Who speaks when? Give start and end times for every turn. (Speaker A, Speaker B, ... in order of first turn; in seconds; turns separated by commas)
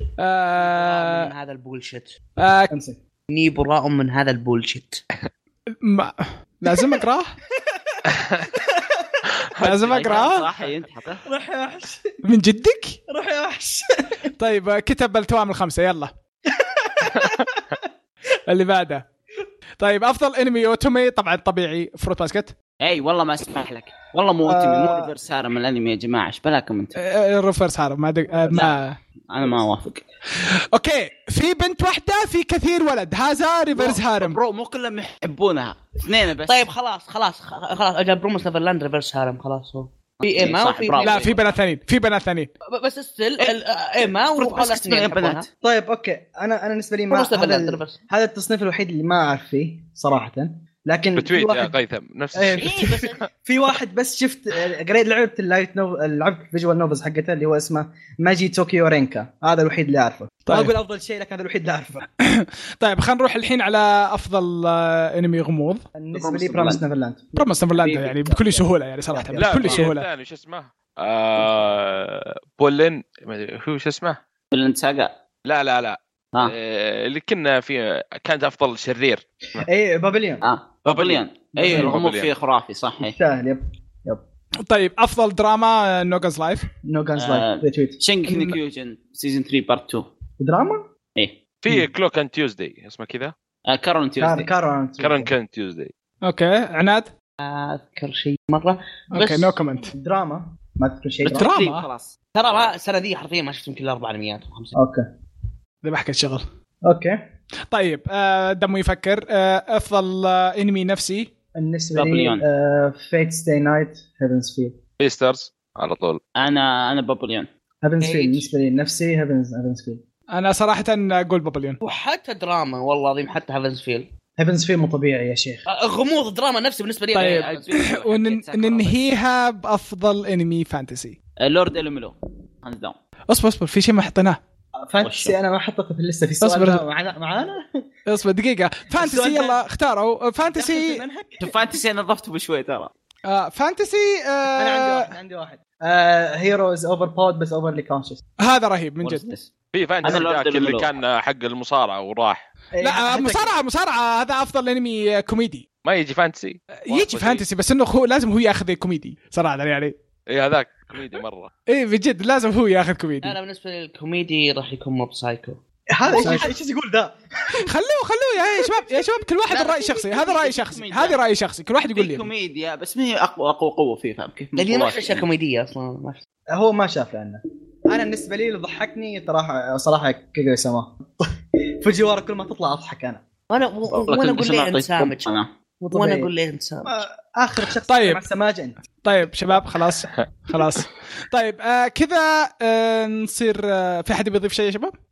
Speaker A: 0.2-1.3, Speaker B: 0.6-2.1, Speaker A: 2.4-2.7, Speaker C: 2.7-3.0, Speaker B: 3.3-5.0, Speaker A: 5.8-7.3, Speaker C: 7.6-9.3, Speaker A: 9.6-10.5, Speaker D: 9.6-11.2, Speaker C: 11.2-12.1, Speaker A: 12.2-13.0, Speaker C: 13.1-14.3, Speaker A: 14.4-16.1, Speaker C: 16.5-17.8, Speaker A: 18.5-19.1, Speaker A: 19.8-22.5, Speaker D: 22.8-27.0, Speaker C: 24.4-25.1, Speaker A: 26.9-29.0, Speaker C: 28.4-28.7, Speaker D: 29.3-30.1, Speaker A: 30.4-34.4, Speaker D: 33.8-36.6, Speaker B: 36.4-41.3, Speaker D: 40.2-41.5, Speaker A: 41.0-42.5, Speaker B: 42.7-45.5, Speaker D: 43.4-45.4, Speaker C: 45.6-51.8, Speaker B: 47.1-48.0, Speaker E: 51.1-53.1, Speaker C: 52.3-62.0, Speaker D: 52.6-53.0, Speaker A: 60.5-60.7, Speaker A: 62.2-65.8, Speaker C: 65.9-69.8, Speaker D: 66.1-66.8, Speaker A: 67.3-70.1, Speaker D: 67.8-68.1, Speaker E: 69.3-74.2, Speaker D: 74.5-75.2, Speaker E: 75.4-79.6, Speaker C: 79.5-80.4, Speaker D: 80.4-83.2, Speaker E: 80.8-82.3, Speaker C: 81.6-81.9, Speaker C: 83.0-84.2, Speaker A: 84.7-86.7, Speaker C: 86.8-88.0, Speaker D: 87.2-90.1, Speaker A: 88.3-88.6, Speaker C: 90.4-90.8, Speaker D: 91.2-91.4, Speaker E: 91.6-93.3, Speaker D: 93.7-94.5, Speaker C: 94.2-95.3, Speaker E: 95.0-95.9, Speaker A: 96.2-97.1, Speaker B: 97.4-99.6, Speaker A: 99.1-99.9, Speaker C: 99.9-101.5, Speaker D: 101.2-102.1, Speaker A: 101.2-101.9, Speaker B: 102.3-104.7, Speaker C: 104.7-105.0, Speaker A: 105.8-106.5, Speaker C: 106.8-107.2, Speaker A: 107.7-111.3, Speaker C: 111.5-114.8, Speaker D: 111.9-112.4, Speaker E: 115.0-116.2, Speaker D: 116.3-117.5, Speaker C: 117.8-120.0, Speaker B: 118.0-118.5, Speaker A: 120.3-121.8, Speaker B: 121.8-124.1, Speaker C: 124.4-125.6, Speaker B: 125.7-127.7, Speaker A: 127.1-131.2, Speaker D: 127.2-129.0, Speaker D: 131.4-132.9, Speaker A: 133.3-134.4, Speaker C: 134.8-137.8, Speaker D: 135.0-135.3, Speaker A: 136.4-136.8, Speaker A: 138.1-141.0, Speaker C: 138.9-139.6, Speaker C: 140.5-141.6, Speaker D: 141.4-142.9, Speaker A: 143.3-145.1, Speaker C: 144.5-148.2, Speaker A: 148.4-149.3, Speaker D: 149.0-150.9, Speaker E: 149.7-152.4, Speaker C: 152.8-153.6, Speaker A: 152.8-155.7, Speaker E: 155.8-157.4, Speaker A: 156.7-159.9, Speaker E: 160.3-161.5, Speaker A: 161.7-163.3, Speaker B: 163.2-165.6, Speaker C: 165.9-167.6, Speaker A: 166.1-166.5, Speaker A: 167.5-172.3, Speaker D: 169.5-171.2, Speaker D: 171.9-175.2, Speaker B: 174.6-176.2, Speaker C: 176.5-183.2, Speaker B: 183.5-185.3, Speaker D: 183.9-185.5, Speaker C: 185.8-186.3, Speaker B: 185.9-187.0, Speaker C: 186.8-188.8, Speaker A: 187.9-188.2, Speaker A: 189.0-194.9